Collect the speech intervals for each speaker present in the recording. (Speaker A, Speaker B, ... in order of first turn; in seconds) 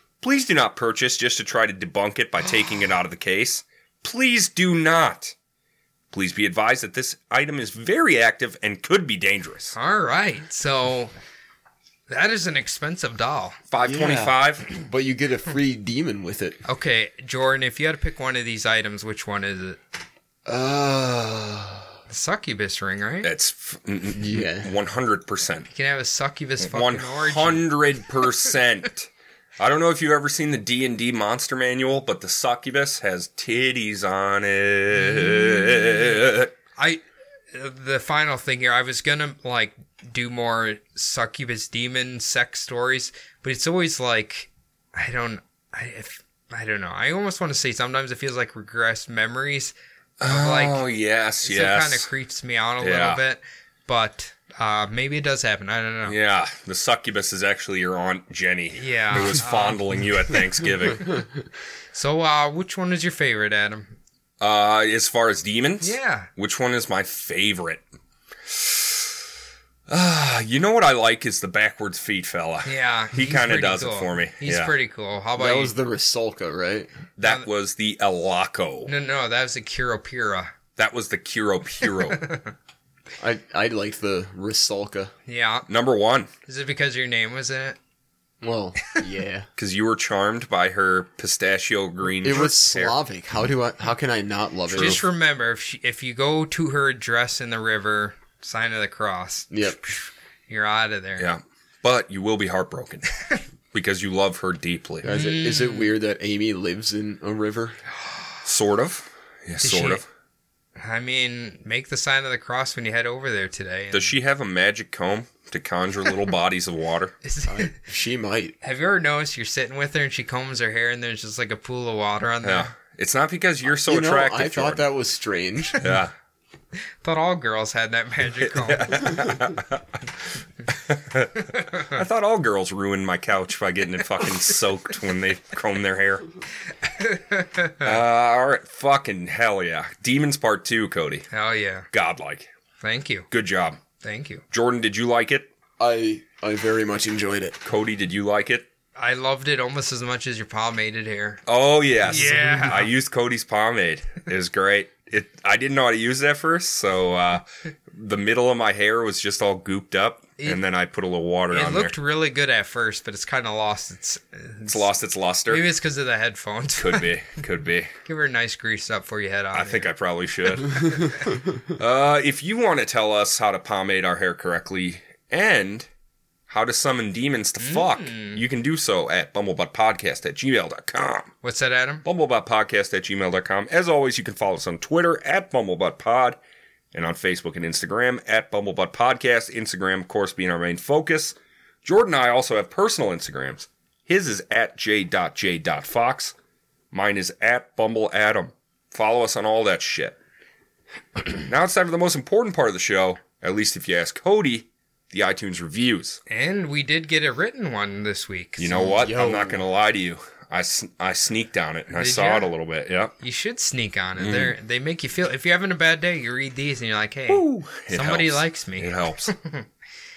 Speaker A: 0.2-5.3, 6.1-9.8, 13.7-14.7, 23.2-25.7, 26.6-36.5, 50.2-52.1, 52.8-53.2, 56.0-61.2, 64.4-67.8, 68.5-69.0, 69.9-74.7, 77.2-78.9, 80.8-82.2, 85.7-86.3, 89.6-93.0, 94.8-95.0, 101.2-103.1, 103.7-105.1, 108.5-110.0, 113.9-117.2, 122.4-124.8, 125.8-126.1, 128.4-129.8, 130.7-136.3, 137.8-141.3, 141.9-142.5, 143.3-143.8, 144.5-145.5, 147.7-148.7, 151.5-161.9, 164.7-165.6, 166.8-167.9, 169.5-175.9, 176.5-181.3, 182.1-186.4, 186.9-196.3, 196.9-200.2, 201.2-206.2, 208.6-213.1, 214.2-214.6, 217.3-219.3
Speaker B: 9.8-11.1, 12.1-13.6, 16.6-19.8, 22.1-23.3, 25.7-27.7, 35.1-36.0, 36.8-50.8, 51.4-56.2, 58.7-59.8, 61.9-64.0, 65.8-66.3, 72.7-75.8, 78.9-80.5, 82.0-82.5, 85.3-85.7, 86.5-87.8, 94.7-101.3, 105.1-105.9, 109.6-110.0, 110.8-114.1, 117.2-117.8, 118.6-122.7, 127.0-129.2, 136.9-137.9, 141.3-141.9, 142.8-143.3, 144.0-144.4, 149.0-151.4, 152.0-152.9, 161.5-164.9, 165.5-167.1, 168.0-169.9, 170.6-171.4, 177.6-178.4, 181.4-182.1, 206.3-209.0, 212.0-212.5, 213.2-219.7
Speaker C: 13.8-16.6, 20.5-21.9, 24.1-24.7, 75.4-76.9, 83.2-85.1, 88.4-89.5, 92.2-95.0, 99.5-99.8, 105.0-107.8, 117.5-118.5, 123.8-125.8, 145.8-147.6, 208.8-209.6